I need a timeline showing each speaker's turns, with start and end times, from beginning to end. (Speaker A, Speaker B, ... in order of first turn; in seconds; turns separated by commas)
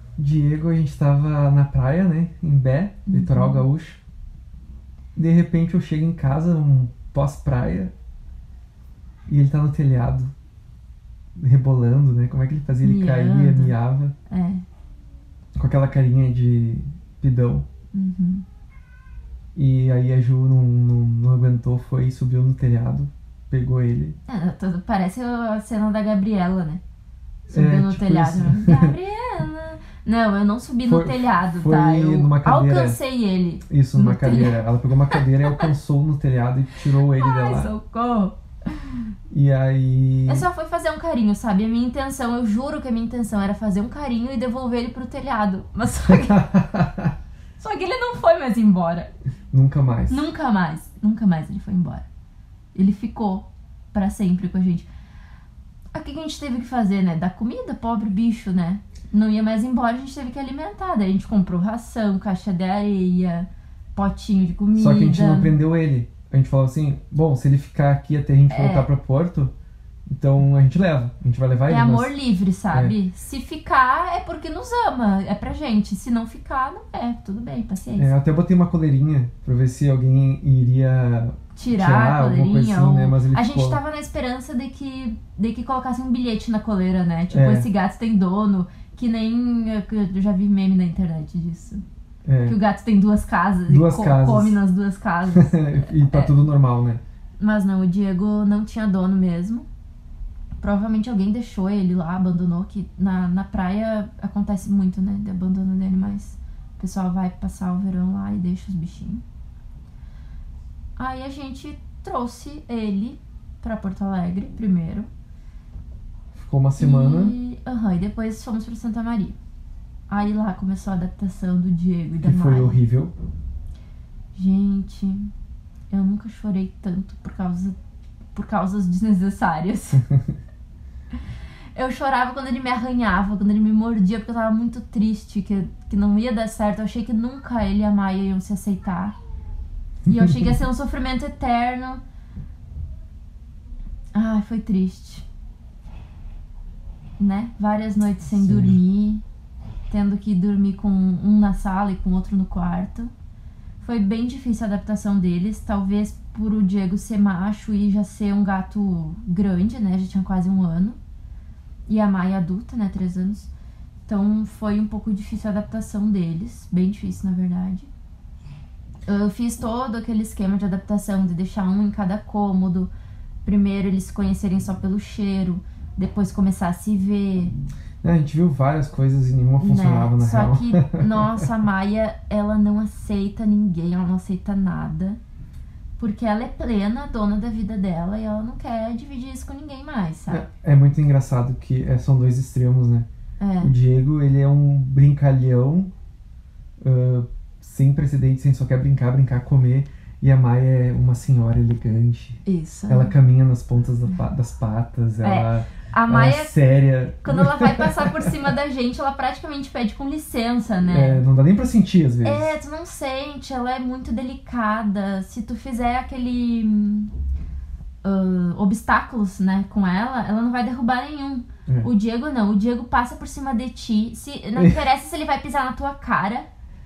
Speaker A: 0.2-4.0, Speaker B: 3.1-3.6, Speaker A: 5.2-7.9, Speaker A: 9.3-10.3, Speaker A: 11.3-14.1, Speaker B: 12.8-13.8, Speaker B: 14.3-14.6, Speaker A: 15.5-17.6, Speaker B: 17.9-18.4, Speaker A: 19.5-24.1, Speaker B: 24.3-26.8, Speaker B: 27.5-35.6, Speaker A: 27.5-28.9, Speaker A: 30.8-33.0, Speaker A: 33.7-37.7, Speaker B: 37.1-39.0, Speaker A: 39.3-40.5, Speaker B: 40.3-46.5, Speaker A: 46.1-47.1, Speaker B: 47.6-49.1, Speaker A: 49.5-50.2, Speaker B: 50.1-52.0, Speaker B: 52.7-54.9, Speaker B: 55.9-65.5, Speaker A: 64.7-69.5, Speaker B: 68.5-68.9, Speaker A: 70.1-72.1, Speaker B: 71.7-78.1, Speaker A: 72.7-72.9, Speaker A: 78.0-83.8, Speaker B: 81.5-91.8, Speaker A: 87.3-87.7, Speaker A: 92.2-92.6, Speaker B: 92.4-96.3, Speaker A: 93.7-94.6, Speaker A: 95.3-97.0, Speaker B: 97.4-99.7, Speaker B: 100.6-109.2, Speaker B: 111.0-115.1, Speaker A: 116.3-117.3, Speaker B: 116.8-119.4, Speaker B: 120.1-122.8, Speaker A: 122.2-123.1, Speaker B: 124.3-125.3, Speaker B: 125.9-127.8, Speaker B: 128.3-130.0, Speaker B: 131.7-139.2, Speaker B: 140.0-142.0, Speaker B: 144.1-145.2, Speaker B: 147.2-149.2, Speaker A: 148.3-148.8, Speaker B: 149.9-153.1, Speaker B: 153.8-161.0, Speaker B: 161.9-163.5, Speaker B: 164.1-167.9, Speaker B: 169.1-172.9, Speaker B: 173.4-177.5, Speaker A: 178.0-181.4, Speaker B: 179.6-185.2, Speaker B: 186.0-190.4, Speaker A: 190.3-193.1, Speaker B: 193.4-193.7, Speaker A: 193.6-195.9, Speaker A: 196.8-208.3, Speaker B: 202.4-203.1, Speaker B: 205.2-206.5, Speaker B: 207.2-211.2, Speaker A: 210.8-212.5, Speaker B: 212.2-217.1, Speaker B: 218.0-226.5